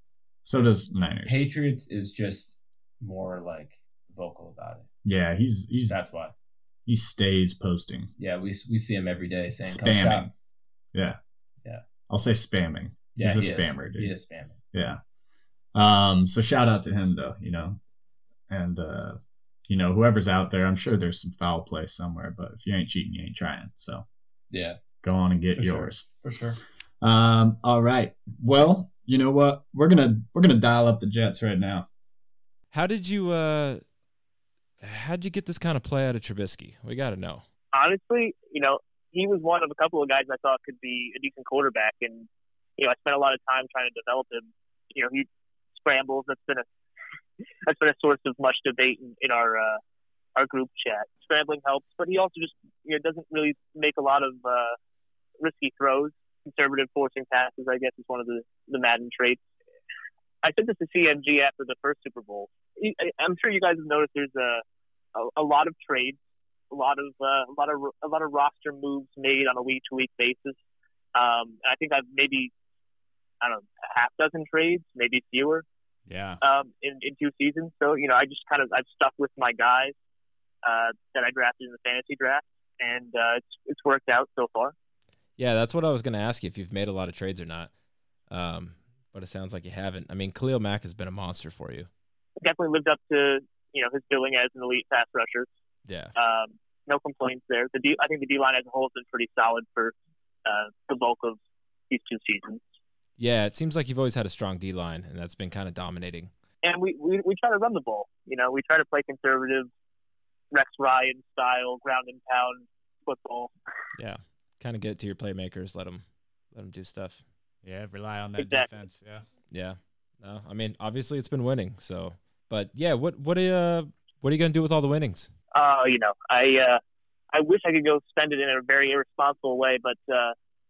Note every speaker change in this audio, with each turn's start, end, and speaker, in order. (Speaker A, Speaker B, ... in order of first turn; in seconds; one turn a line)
Speaker A: 0.4-1.4
Speaker B: 1.2-4.9
Speaker A: 5.0-6.0
Speaker B: 5.9-6.3
Speaker A: 6.9-8.1
Speaker B: 8.2-10.3
Speaker A: 9.6-10.3
Speaker A: 12.1-14.1
Speaker B: 13.1-14.6
Speaker A: 14.7-15.0
Speaker A: 15.7-17.8
Speaker A: 18.5-24.0
Speaker B: 24.5-24.8
Speaker A: 25.0-26.1
Speaker B: 25.5-26.6
Speaker A: 27.0-31.9
Speaker C: 32.7-33.8
Speaker C: 34.8-37.4
Speaker D: 37.7-46.7
Speaker D: 47.6-49.8
Speaker D: 50.4-54.8
Speaker D: 55.4-59.4
Speaker D: 60.4-64.6
Speaker D: 65.1-66.2
Speaker D: 66.7-70.6
Speaker D: 71.1-72.5
Speaker D: 73.4-75.7
Speaker E: 76.1-76.4
Speaker D: 76.4-79.9
Speaker D: 80.6-84.7
Speaker C: 85.4-87.7
Speaker C: 88.3-91.9
Speaker D: 92.4-95.5
Speaker C: 95.9-96.1
Speaker D: 96.2-99.9
Speaker D: 100.4-102.6
Speaker C: 103.2-106.3
Speaker D: 106.6-109.7
Speaker D: 110.5-113.5
Speaker C: 114.0-117.3
Speaker E: 117.6-119.3
Speaker D: 118.4-118.7
Speaker C: 119.5-125.3
Speaker D: 125.5-126.8
Speaker D: 127.3-130.3